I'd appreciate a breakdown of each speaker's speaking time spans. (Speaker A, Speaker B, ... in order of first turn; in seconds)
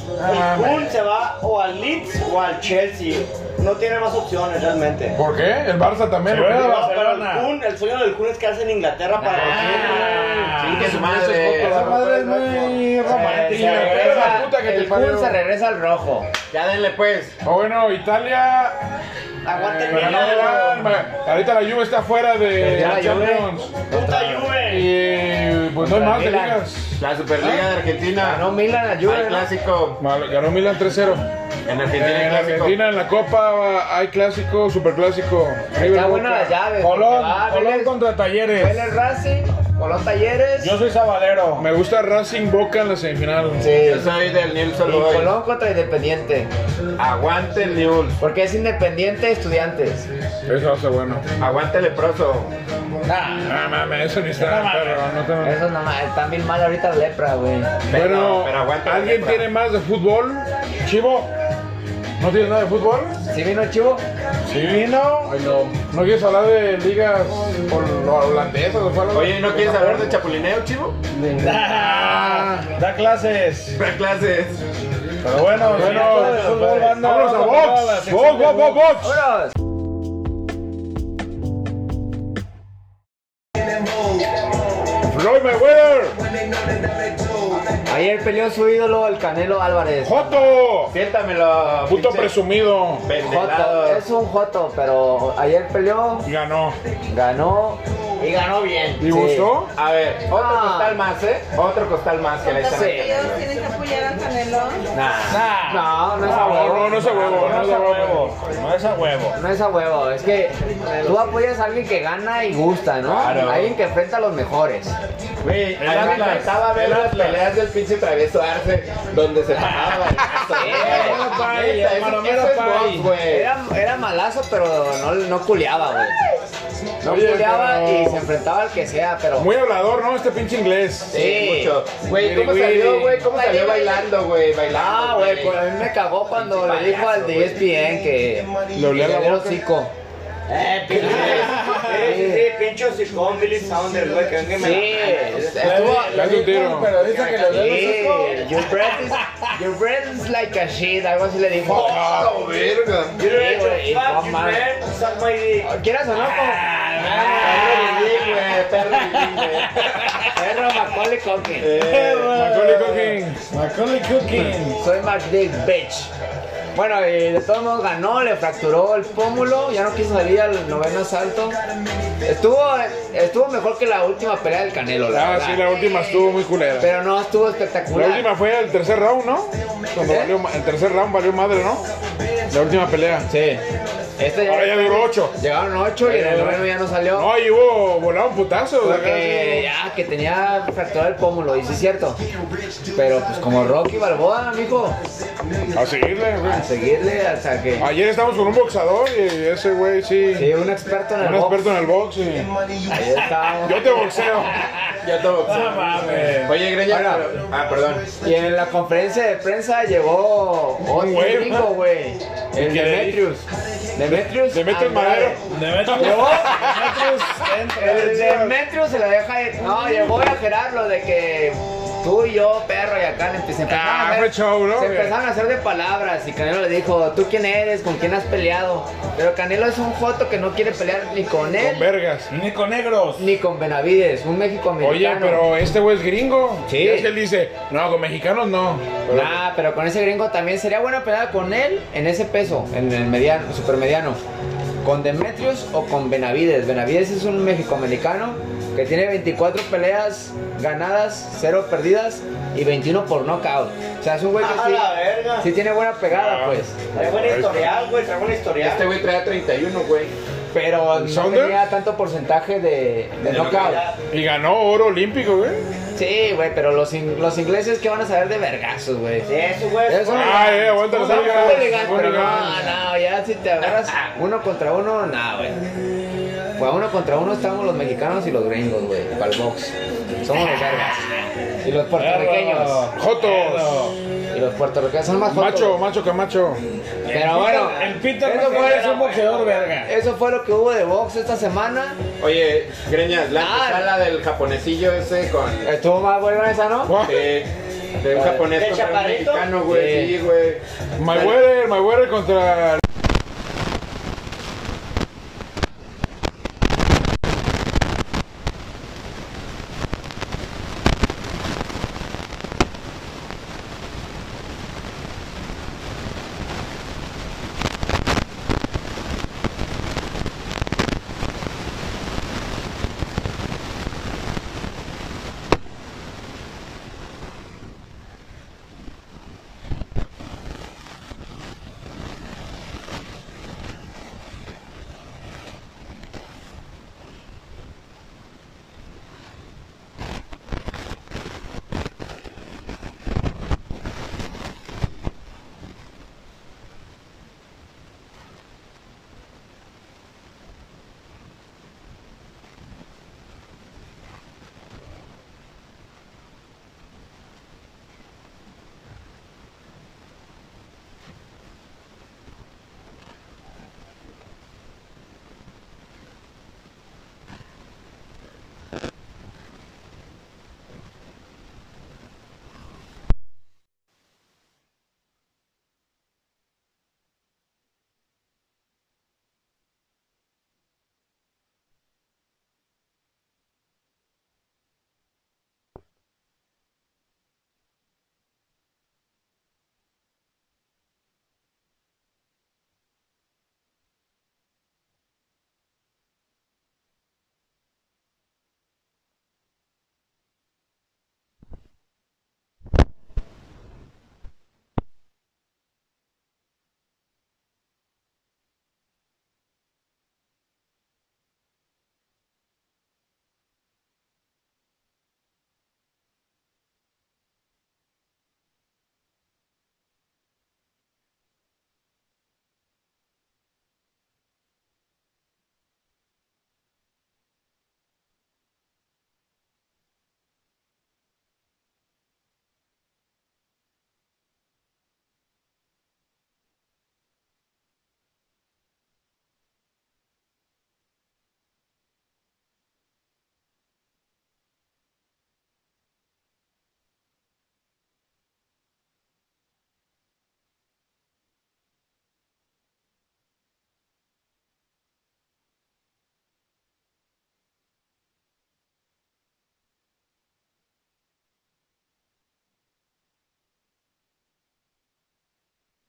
Speaker A: 0.2-0.9, 5.1-6.8, 9.4-12.4, 13.1-15.4, 17.4-18.9, 19.5-23.8, 24.5-27.6, 30.0-31.2, 31.9-36.5, 41.6-43.7, 50.5-51.2, 53.4-55.6, 57.9-61.3, 62.2-63.1, 65.2-70.1, 71.7-72.7, 75.7-79.2, 85.1-86.2, 90.0-90.9, 91.8-93.1, 96.2-96.8, 99.0-99.7, 106.2-108.3, 127.0-128.2, 129.4-131.2, 132.2-133.0, 138.7-139.6, 146.0-147.0, 151.8-152.3, 162.3-163.4, 175.1-176.9, 177.9-181.9, 182.5-183.3, 184.4-185.3, 186.1-186.6, 187.1-189.7, 195.7-196.7, 197.8-200.5, 201.2-202.5, 203.6-204.7, 210.9-211.7, 212.6-213.2, 214.0-218.5, 223.7-225.1, 231.6-232.3, 234.8-239.4, 256.1-257.7, 260.9-261.6, 264.1-265.6, 270.1-272.8, 282.9-283.9, 285.2-286.6, 296.9-297.3, 301.0-302.8
Speaker B: 0.2-5.2, 6.5-10.2, 19.4-20.8, 23.9-24.9, 98.2-99.0, 140.5-145.6, 147.0-148.5, 153.2-155.7, 254.3-255.5, 256.9-258.9, 263.2-264.0, 269.2-271.5, 288.4-289.7, 298.5-299.5
Speaker C: 6.2-7.5, 9.4-14.5, 19.9-20.9, 36.8-38.9, 40.6-41.7, 53.1-53.6, 54.3-55.1, 64.5-65.3, 71.4-73.8, 75.2-78.8, 105.3-109.4, 115.8-116.5, 119.5-123.1, 141.0-142.2, 145.6-149.5, 156.1-158.4, 159.2-160.3, 161.8-164.8, 205.4-206.6, 215.5-218.5, 232.3-233.3, 281.9-284.0, 287.0-289.9
Speaker D: 9.2-10.1, 13.0-16.3, 22.6-23.5, 25.8-26.6, 28.2-29.5, 35.7-37.9, 38.5-40.8, 43.6-44.1, 44.8-46.5, 48.2-50.1, 55.4-57.8, 63.3-64.0, 75.9-76.7, 79.0-79.5, 87.8-90.4, 93.2-96.2, 97.1-99.5, 100.3-101.0, 102.7-103.1, 105.6-107.6, 109.3-115.0, 115.8-116.9, 120.5-121.3, 123.2-126.2, 127.0-129.5, 131.1-131.8, 132.6-133.5, 134.7-139.9, 140.9-142.5, 144.6-146.2, 147.4-152.1, 153.2-154.7, 155.6-158.0, 160.3-161.8, 164.7-166.1, 166.7-171.6, 172.2-175.8, 176.8-178.3, 180.0-180.3, 183.3-183.6, 184.2-187.3, 188.8-192.2, 192.9-195.0, 196.4-197.9, 200.3-201.7, 202.9-204.3, 206.8-207.3, 208.2-215.4, 215.9-216.7, 217.7-231.9, 233.2-235.5, 236.7-237.1, 239.1-244.2, 244.8-256.8, 260.5-263.8, 265.9-269.3, 269.9-275.6, 276.6-282.9, 284.3-285.8, 287.1-289.0, 289.8-292.0, 293.3-293.9, 295.6-297.1, 298.1-298.5, 299.6-300.1
Speaker E: 10.6-12.0, 16.5-17.4, 27.0-28.4, 29.0-30.0, 31.7-32.8, 43.7-45.3, 47.0-48.2, 51.4-52.5, 57.9-59.5, 69.1-71.0, 73.7-74.6, 90.9-92.4, 93.0-94.0, 99.7-103.4, 104.9-105.5, 113.0-113.7, 115.4-123.5, 131.1-135.6, 136.4-137.6, 141.0-141.5, 151.6-153.2, 157.3-159.9, 161.6-163.1, 205.0-208.1, 258.6-260.1, 273.7-274.1, 292.2-295.7, 297.0-301.4
Speaker F: 102.4-104.8, 133.3-134.0